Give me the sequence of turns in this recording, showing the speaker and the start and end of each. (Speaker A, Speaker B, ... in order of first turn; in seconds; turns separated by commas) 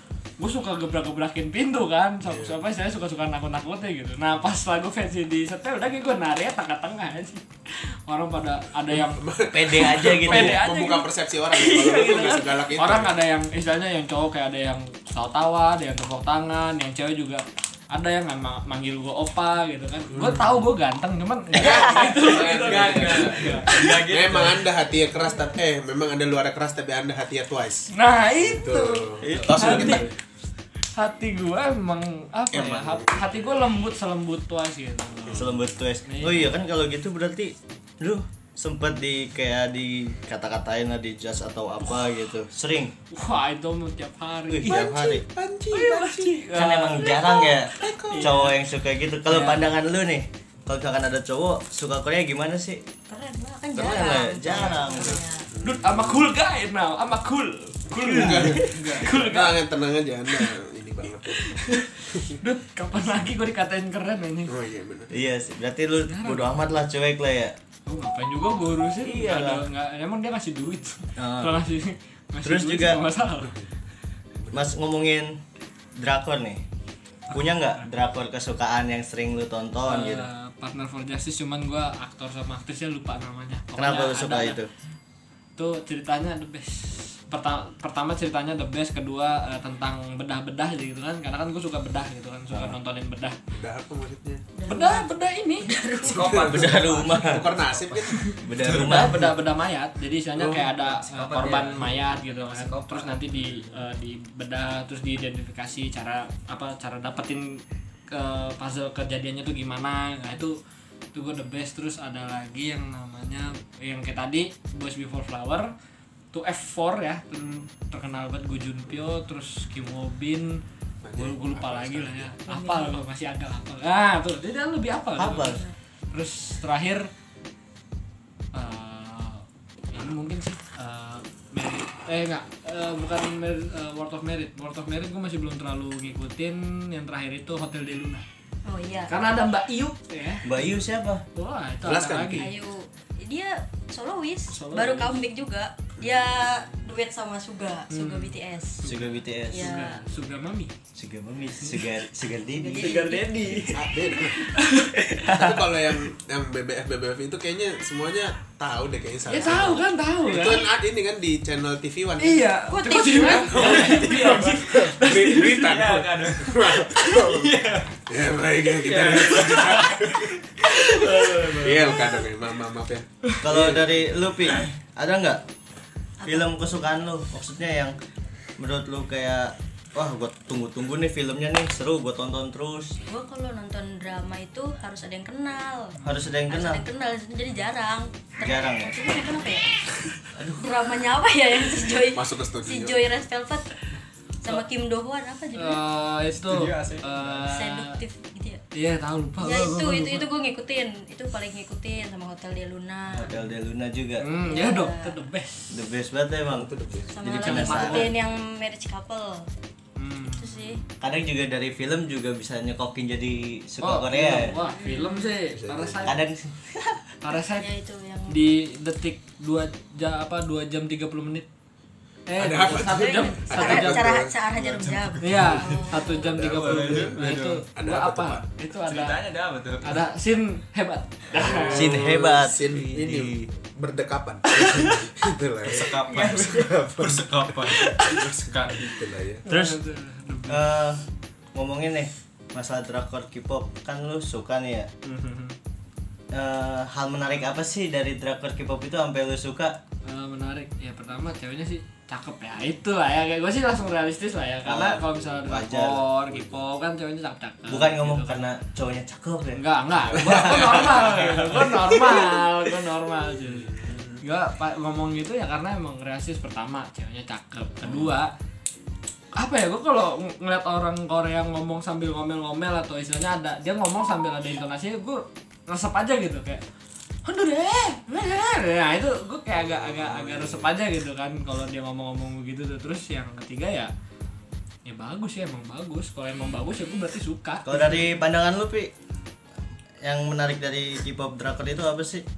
Speaker A: 0.4-24.1, Speaker B: 2.2-2.6, Speaker B: 8.9-13.2, Speaker C: 9.5-10.6, Speaker B: 20.1-20.6, Speaker B: 21.5-30.1, Speaker D: 22.4-24.6, Speaker A: 27.9-30.1, Speaker C: 29.2-30.0, Speaker A: 30.9-36.5, Speaker B: 32.5-33.6, Speaker B: 35.2-35.6, Speaker C: 35.3-42.9, Speaker A: 41.8-42.1, Speaker A: 43.1-44.9, Speaker C: 44.5-45.2, Speaker B: 44.6-46.5, Speaker A: 45.7-48.5, Speaker C: 46.5-52.8, Speaker B: 47.0-48.4, Speaker A: 49.3-49.7, Speaker E: 53.1-55.5, Speaker C: 53.7-55.2, Speaker B: 55.5-56.3, Speaker A: 55.6-59.7, Speaker B: 58.0-62.4, Speaker C: 58.0-58.9, Speaker A: 61.2-64.5, Speaker B: 64.5-65.1, Speaker C: 65.1-67.5, Speaker A: 66.1-66.5, Speaker A: 67.9-73.5, Speaker C: 69.0-69.7, Speaker C: 71.2-71.6, Speaker C: 72.4-73.0, Speaker B: 73.4-73.7, Speaker C: 74.5-75.4, Speaker C: 76.0-76.6, Speaker C: 77.3-80.3, Speaker A: 77.4-77.8, Speaker A: 79.8-84.6, Speaker C: 83.7-84.7, Speaker A: 85.6-93.3, Speaker C: 92.5-92.8, Speaker B: 93.5-94.4, Speaker E: 94.5-96.2, Speaker A: 94.7-95.7, Speaker D: 96.0-97.4, Speaker B: 96.1-98.5, Speaker C: 96.4-97.5, Speaker A: 98.1-110.6, Speaker C: 98.4-99.3, Speaker D: 98.7-99.0, Speaker B: 100.4-100.7, Speaker D: 100.9-103.2, Speaker A: 111.1-115.7, Speaker A: 116.3-120.6, Speaker B: 121.0-122.4, Speaker A: 121.1-125.6, Speaker E: 122.5-123.0, Speaker C: 125.2-125.6, Speaker E: 125.3-125.7, Speaker A: 126.1-127.1, Speaker A: 128.5-138.2, Speaker E: 138.6-139.2, Speaker A: 139.1-140.5, Speaker C: 140.4-141.2, Speaker A: 141.3-142.5, Speaker B: 141.8-142.5, Speaker E: 142.4-148.8, Speaker A: 144.5-145.1, Speaker A: 147.9-150.7, Speaker C: 148.8-149.8, Speaker E: 149.5-150.0, Speaker C: 150.9-153.0, Speaker E: 152.6-154.2, Speaker A: 152.8-155.4, Speaker B: 153.7-154.5, Speaker C: 155.1-155.7, Speaker B: 155.2-162.4, Speaker A: 159.3-160.7, Speaker A: 162.2-165.7, Speaker E: 162.7-164.1, Speaker B: 163.3-174.2, Speaker D: 163.6-164.7, Speaker D: 165.5-168.0, Speaker A: 166.9-167.2, Speaker A: 168.8-172.3, Speaker D: 168.9-169.7, Speaker C: 173.4-175.4, Speaker E: 176.2-176.6, Speaker C: 176.2-178.0, Speaker C: 178.6-183.0, Speaker E: 183.0-186.0, Speaker C: 186.0-186.8, Speaker E: 186.5-189.7, Speaker C: 188.4-188.9, Speaker C: 190.3-190.8, Speaker E: 190.6-193.7, Speaker B: 192.1-193.1, Speaker E: 194.4-195.8, Speaker A: 195.5-198.0, Speaker D: 196.3-197.4, Speaker E: 197.4-198.6, Speaker A: 198.7-200.3, Speaker E: 199.4-203.3, Speaker C: 203.1-204.2, Speaker A: 204.2-205.8, Speaker E: 204.4-205.1, Speaker C: 205.7-206.7, Speaker B: 206.5-207.2, Speaker E: 207.1-209.5, Speaker C: 207.2-208.1, Speaker A: 207.4-208.1, Speaker A: 210.0-210.7, Speaker E: 210.2-210.8, Speaker C: 211.0-214.5, Speaker A: 213.8-216.2, Speaker E: 214.5-215.3, Speaker B: 215.4-216.1, Speaker C: 216.0-217.0, Speaker A: 217.2-217.7, Speaker E: 217.6-218.3, Speaker A: 218.3-221.5, Speaker A: 222.3-224.1, Speaker B: 222.3-224.4, Speaker E: 222.9-226.3, Speaker D: 224.5-227.3, Speaker A: 225.2-229.2, Speaker B: 226.2-228.5, Speaker D: 228.8-229.9, Speaker A: 229.8-232.1, Speaker B: 231.3-239.4, Speaker C: 231.7-232.6, Speaker A: 232.7-233.3, Speaker A: 234.5-235.1, Speaker D: 235.6-238.9, Speaker A: 236.1-236.7, Speaker A: 237.7-238.3, Speaker A: 239.4-240.7, Speaker C: 239.5-239.8, Speaker C: 240.5-241.0, Speaker C: 241.5-244.9, Speaker A: 245.0-245.6, Speaker C: 246.3-249.8, Speaker A: 250.0-258.5, Speaker C: 254.6-256.1, Speaker B: 256.3-256.6, Speaker C: 257.7-260.8, Speaker A: 259.5-268.3, Speaker B: 260.0-262.4, Speaker D: 260.9-261.4, Speaker B: 263.3-264.2, Speaker A: 269.4-276.6, Speaker A: 277.2-283.9, Speaker B: 279.5-280.7, Speaker A: 284.8-288.1, Speaker C: 287.6-288.9, Speaker C: 290.0-292.2